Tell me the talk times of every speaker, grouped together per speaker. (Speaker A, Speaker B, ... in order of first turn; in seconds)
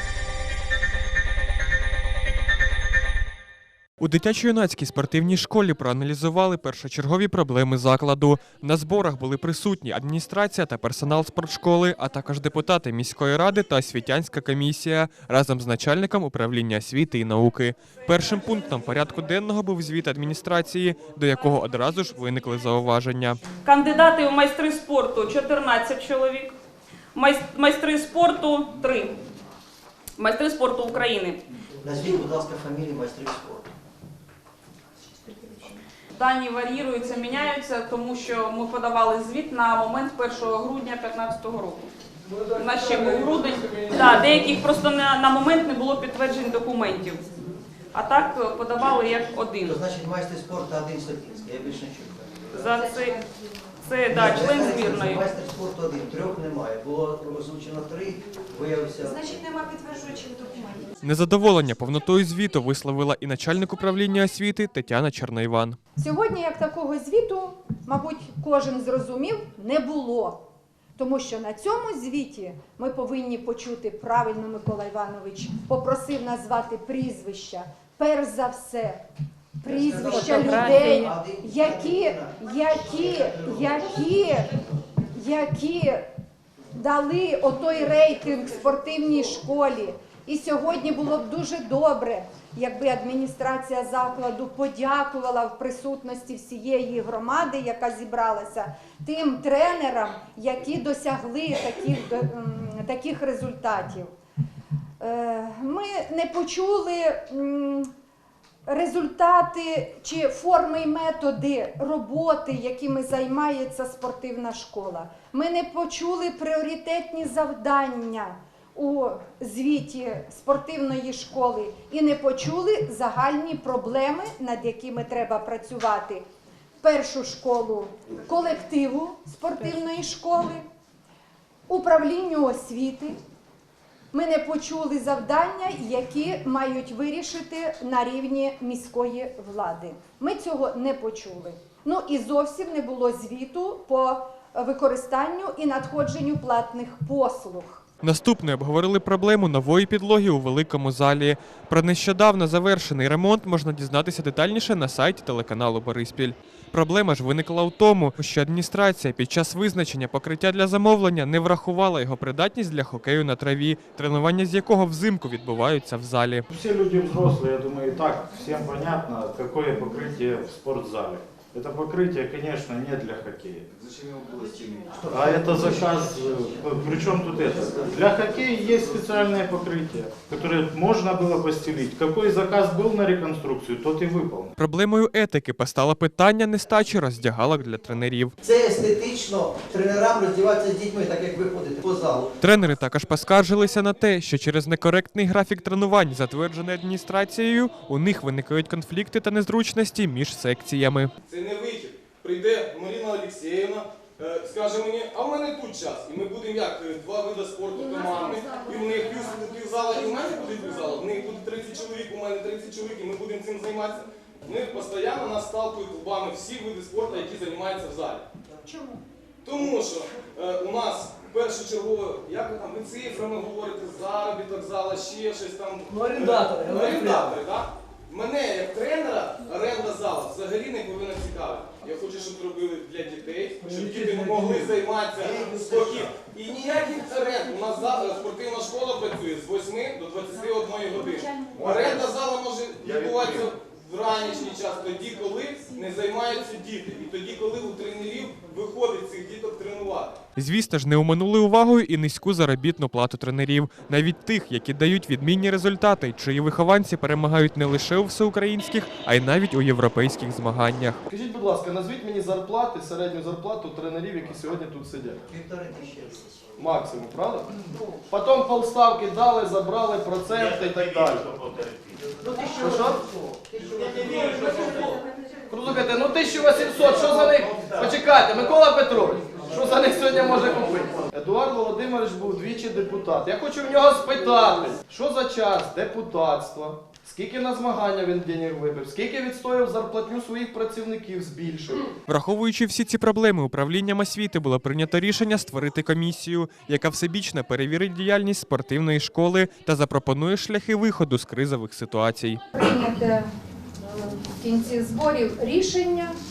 Speaker A: 4.0-23.4, 61.0-65.8, 148.0-166.4, 184.6-188.3, 192.4-201.1, 250.4-261.0, 292.1-302.4
Speaker B: 23.6-26.5, 27.1-29.2, 30.2-31.4, 36.2-41.9, 42.5-47.3, 47.9-49.8, 52.5-53.2, 53.8-55.3, 80.0-81.2
Speaker C: 31.8-33.7, 49.6-52.5, 54.1-59.5, 79.6-84.2, 174.3-176.1, 177.6-177.9, 188.4-192.3, 265.3-266.5, 272.2-274.9
Speaker D: 42.7-43.2, 261.1-265.2, 266.6-267.5, 268.1-271.4, 272.5-273.0, 274.3-274.9, 275.5-291.9
Speaker E: 66.0-70.4, 71.0-79.0, 79.6-84.5, 85.1-86.1, 86.8-104.1, 105.0-107.9, 108.7-126.2, 126.8-130.7, 131.7-133.2, 134.1-147.8, 218.6-219.0, 302.5-303.3, 303.8-306.1
Speaker F: 166.5-173.7, 175.1-184.5
Speaker G: 201.3-218.3, 219.4-250.2